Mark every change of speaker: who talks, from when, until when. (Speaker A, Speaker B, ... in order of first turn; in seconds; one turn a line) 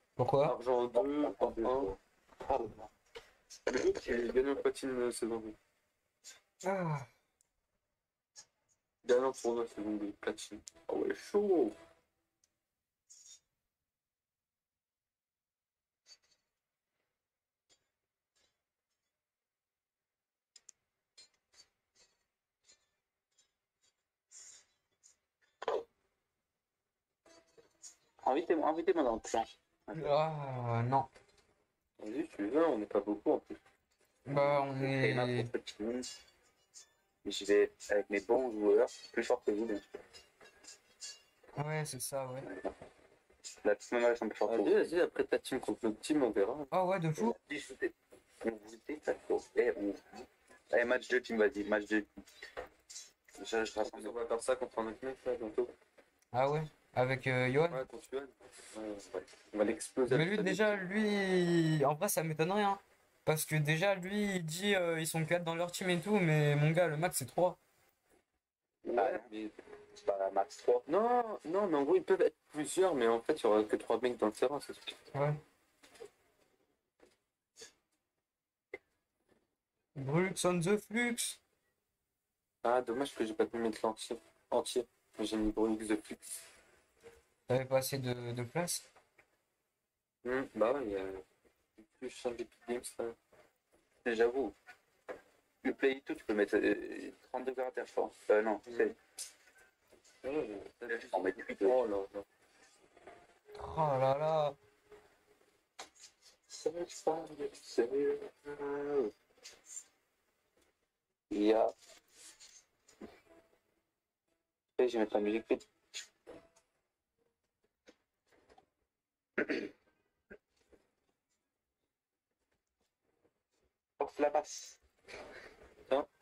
Speaker A: 0.2-0.5
Speaker B: 0.4-1.9
Speaker C: 0.9-2.9
Speaker C: 3.7-4.3
Speaker B: 3.8-5.5
Speaker A: 6.6-7.1
Speaker B: 9.0-11.8
Speaker C: 28.2-30.1
Speaker A: 29.9-31.1
Speaker B: 32.0-33.6
Speaker A: 34.2-35.5
Speaker C: 34.3-36.1
Speaker C: 37.2-39.9
Speaker A: 41.5-42.5
Speaker C: 42.4-42.7
Speaker C: 43.6-44.9
Speaker B: 44.5-46.7
Speaker A: 46.7-47.4
Speaker C: 47.2-52.2
Speaker C: 53.4-54.1
Speaker B: 53.8-55.7
Speaker A: 56.3-57.8
Speaker B: 57.7-60.9
Speaker A: 60.1-67.6
Speaker C: 68.8-69.3
Speaker B: 68.9-69.5
Speaker C: 70.0-70.8
Speaker B: 70.9-75.0
Speaker A: 75.1-75.4
Speaker A: 80.0-81.4
Speaker B: 82.6-86.3
Speaker A: 87.5-88.8
Speaker B: 90.2-91.2
Speaker B: 91.8-93.2
Speaker C: 94.0-94.5
Speaker C: 95.6-99.0
Speaker B: 98.7-98.9
Speaker B: 100.2-102.2
Speaker C: 100.9-101.8
Speaker A: 103.5-104.5
Speaker C: 106.5-108.3
Speaker B: 108.5-109.1
Speaker C: 111.3-111.7
Speaker C: 114.8-115.7
Speaker C: 119.4-119.7
Speaker C: 124.0-124.8